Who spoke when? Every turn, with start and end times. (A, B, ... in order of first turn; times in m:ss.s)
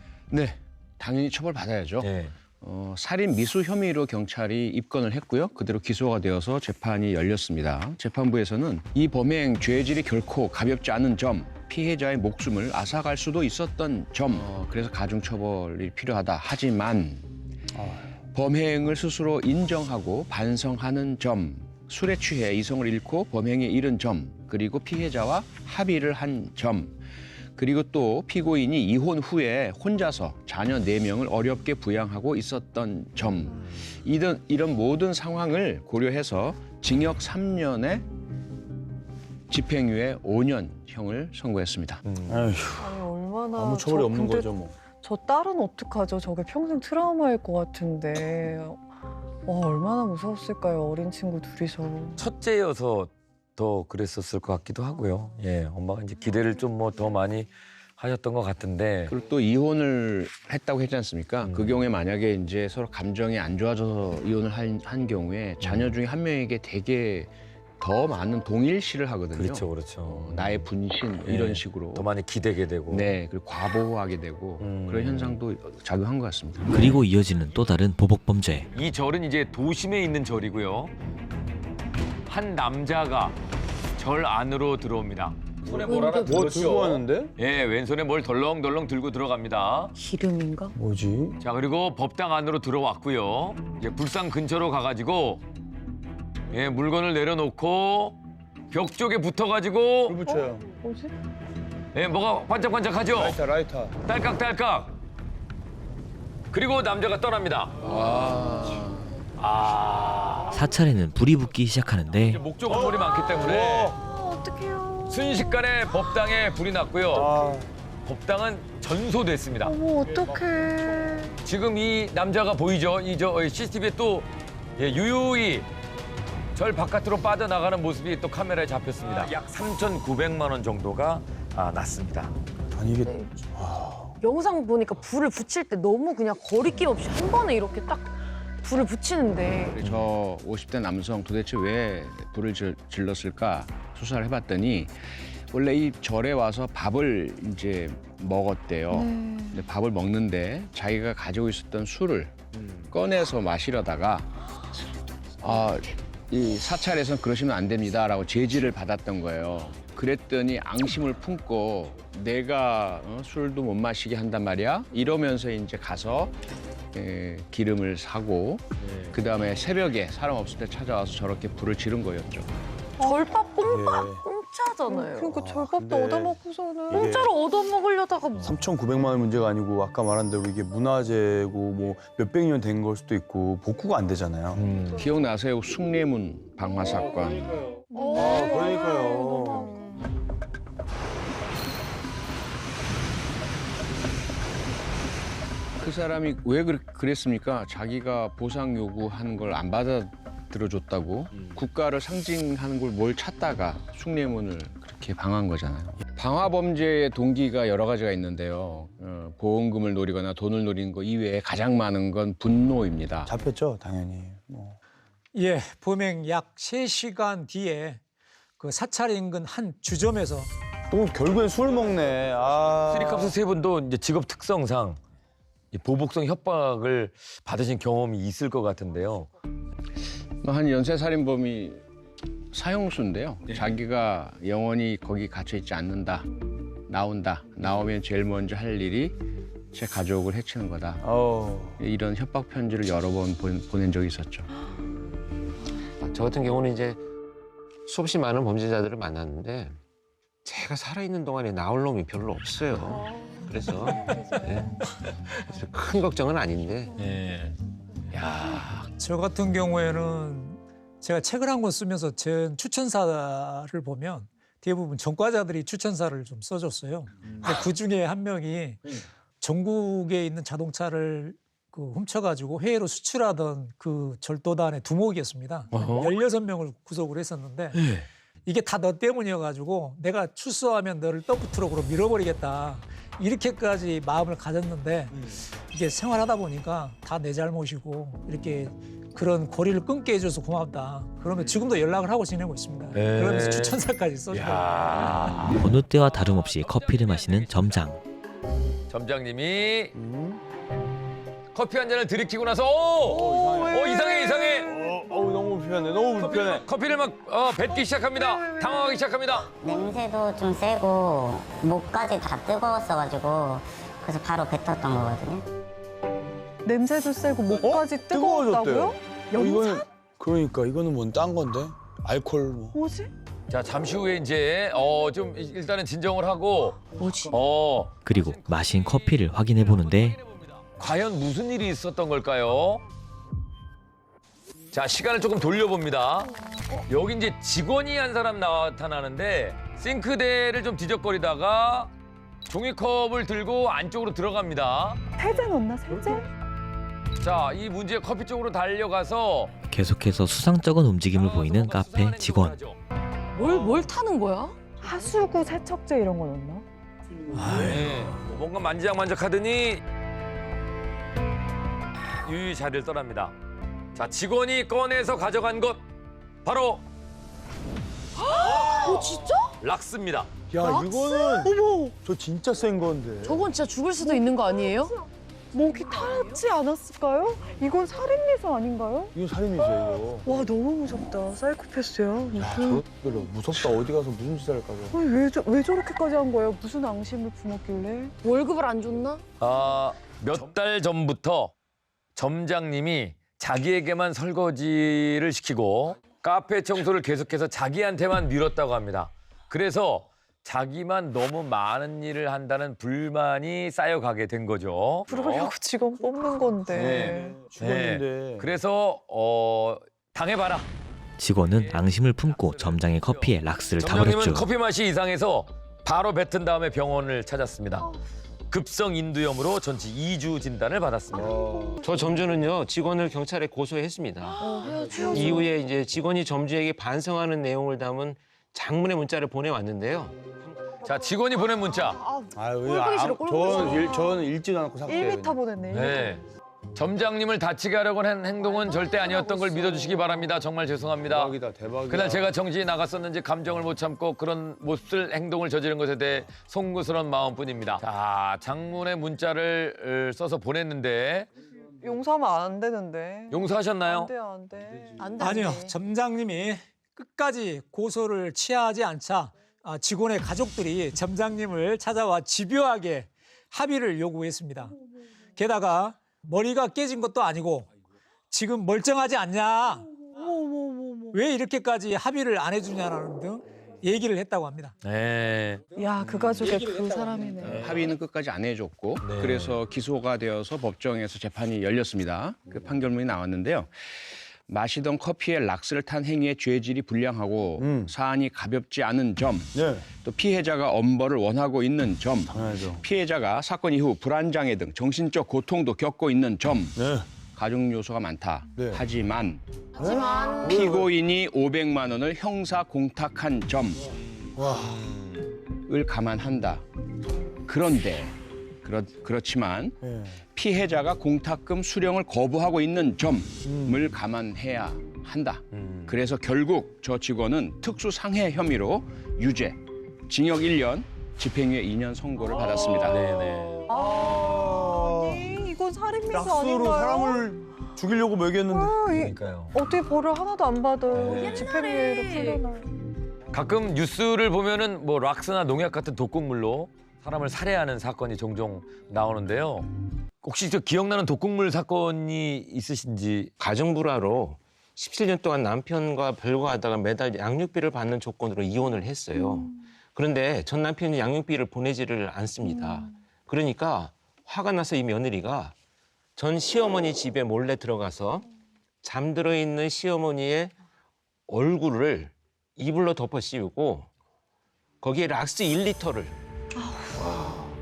0:00.3-0:17.3 A
0:02.0-0:02.3 B
0:17.7-0:18.1 C
0:18.3-0:27.0 A
0:27.6-0:38.0 A
0:39.5-0:42.0 A
0:42.0-0:42.4 B
0:42.2-0:42.9 C
0:42.8-0:48.8 D
0:43.6-0:44.7 C
0:49.4-0:52.2 D
0:52.2-0:59.1 B
0:59.1-1:12.0 A
1:01.4-1:01.8 B
1:05.6-1:05.9 B
1:09.3-1:10.6 B
1:11.2-1:13.1 B
1:12.9-1:16.7 A
1:14.6-1:15.4 B
1:16.7-1:18.7 E
1:18.7-1:20.9 B
1:22.3-1:23.4 B
1:24.0-1:29.9 B
1:25.7-1:26.6 F
1:26.2-1:27.3 C
1:30.0-1:30.7 F
1:30.8-1:31.4 C
1:31.4-1:35.4 B
1:36.5-1:38.2 B
1:38.7-1:40.2 B
1:40.0-1:40.7 C
1:40.2-1:41.1 D
1:41.9-1:43.4 B
1:43.1-1:43.9 C
1:44.1-1:44.9 B
1:46.5-1:47.8 B
1:47.8-1:49.1 A
1:49.4-1:50.6 B
1:50.5-1:52.4 E
1:52.2-1:54.0 B
1:52.7-1:54.0 C
1:53.9-1:55.5 D
1:55.1-1:57.3 B
1:57.1-1:57.7 C
1:58.0-1:59.8 B
1:59.6-2:01.3 D
2:01.4-2:05.7 B
2:06.5-2:12.3 B
2:12.7-2:14.1 C
2:13.0-2:13.4 F
2:14.2-2:19.8 F
2:19.7-2:34.3 A
2:28.9-2:29.7 D
2:35.4-2:46.4 A
2:46.9-2:52.5 A
2:48.8-2:49.1 B
2:53.0-2:55.3 F
2:53.0-2:53.4 D
2:53.6-2:54.2 C
2:54.9-2:57.1 D
2:55.3-2:56.4 C
2:56.9-2:57.3 C
2:56.9-2:58.6 F
2:58.4-3:04.6 C
3:04.5-3:05.0 B
3:04.9-3:07.5 A
3:07.9-3:10.2 D
3:08.0-3:08.3 F
3:08.1-3:09.7 C
3:15.8-3:33.3 A
3:33.2-3:34.8 C
3:35.3-3:38.0 G
3:38.6-3:40.5 G
3:40.9-3:43.4 C
3:42.9-3:45.0 B
3:45.7-3:49.3 B
3:50.4-3:51.8 A
3:52.5-3:56.3 A
3:53.5-3:53.8 B
3:56.9-3:59.2 A
3:59.7-4:01.1 A
4:01.0-4:01.8 C
4:01.8-4:04.5 A
4:06.0-4:07.0 H
4:07.8-4:09.8 H
4:10.4-4:14.8 H
4:13.0-4:13.4 D
4:14.1-4:14.5 D
4:15.4-4:17.0 H
4:17.0-4:17.5 B
4:18.1-4:18.9 B
4:19.0-4:28.8 G
4:29.4-4:37.8 G
4:37.8-4:38.0 B
4:38.4-4:54.7 G
4:52.9-4:53.8 B
4:54.3-4:55.7 B
4:55.6-4:58.0 E
4:56.2-4:57.9 B
4:58.9-4:59.9 B
4:59.9-5:00.4 C
5:01.5-5:04.7 B
5:03.0-5:04.1 C
5:03.1-5:04.6 D
5:04.6-5:06.6 C
5:06.4-5:09.5 B
5:07.7-5:09.0 D
5:09.6-5:15.4 I
5:16.6-5:19.9 D
5:17.6-5:22.8 C
5:22.7-5:23.1 D
5:23.5-5:32.8 B
5:27.0-5:27.3 F
5:28.0-5:30.2 E
5:34.7-5:36.3 B
5:36.8-5:41.9 B
5:42.5-5:45.0 B
5:45.2-5:46.2 D
5:47.2-5:49.5 B
5:49.7-5:52.6 E
5:51.1-5:52.8 B
5:53.3-5:54.6 F
5:54.8-5:56.6 D
5:57.3-5:59.8 B
6:02.1-6:03.3 B
6:03.9-6:05.8 B
6:06.4-6:06.8 B
6:08.2-6:09.6 F
6:09.6-6:10.3 B
6:10.5-6:13.4 C
6:10.6-6:11.9 D
6:13.2-6:14.9 F
6:14.0-6:14.8 D
6:15.5-6:19.1 D
6:15.7-6:16.4 F
6:19.1-6:20.3 C
6:20.2-6:22.8 D
6:22.3-6:25.0 C
6:24.9-6:28.2 D
6:28.2-6:29.2 F
6:29.4-6:31.5 B
6:32.2-6:45.5 B
6:45.1-6:47.4 D
6:46.7-6:50.7 B
6:46.8-6:48.5 C
6:51.2-6:54.5 E
6:51.4-6:57.9 B
6:58.5-7:01.3 B
7:01.1-7:01.8 C
7:01.8-7:04.4 H
7:04.4-7:05.5 F
7:04.4-7:05.5 D
7:05.1-7:10.2 H
7:10.8-7:12.0 B
7:12.3-7:15.4 C
7:12.5-7:14.1 F
7:13.4-7:14.2 D
7:14.8-7:16.2 D
7:15.7-7:16.2 B
7:16.7-7:21.4 B
7:19.0-7:19.9 D
7:21.0-7:22.3 C
7:21.9-7:31.3 B
7:31.8-7:35.1 D
7:33.3-7:34.1 B
7:35.0-7:35.7 F
7:35.2-7:44.7 G
7:45.4-7:47.7 G
7:48.3-7:49.9 G
7:50.1-7:51.2 D
7:51.1-7:54.7 G
7:54.8-7:55.6 B
7:55.8-7:57.6 D
7:57.4-8:03.7 A
7:57.4-7:57.9 B
7:59.0-7:59.6 B
8:04.5-8:16.8 A
8:07.6-8:07.9 C
8:09.5-8:09.9 C
8:12.3-8:12.8 C
8:16.8-8:17.0 C
8:17.3-8:19.4 A
8:18.6-8:18.8 C
8:19.8-8:20.6 F
8:19.8-8:20.9 C
8:20.4-8:23.8 A
8:24.4-8:24.9 C
8:25.7-8:26.6 A
8:27.5-8:43.0 A
8:29.8-8:30.2 C
8:33.4-8:33.9 C
8:35.5-8:36.0 B
8:42.8-8:43.7 B
8:43.7-8:47.3 D
8:43.7-8:45.3 C
8:46.1-8:48.8 C
8:48.4-8:52.7 D
8:48.9-8:49.5 B
8:50.9-8:51.4 B
8:51.1-8:52.4 F
8:53.3-8:59.7 B
9:00.2-9:03.3 B
9:03.4-9:15.5 H
9:09.2-9:09.5 D
9:12.4-9:12.8 D
9:16.2-9:18.3 H
9:18.8-9:20.5 H
9:21.3-9:23.9 H
9:24.8-9:26.2 H
9:26.6-9:27.0 D
9:27.0-9:27.4 H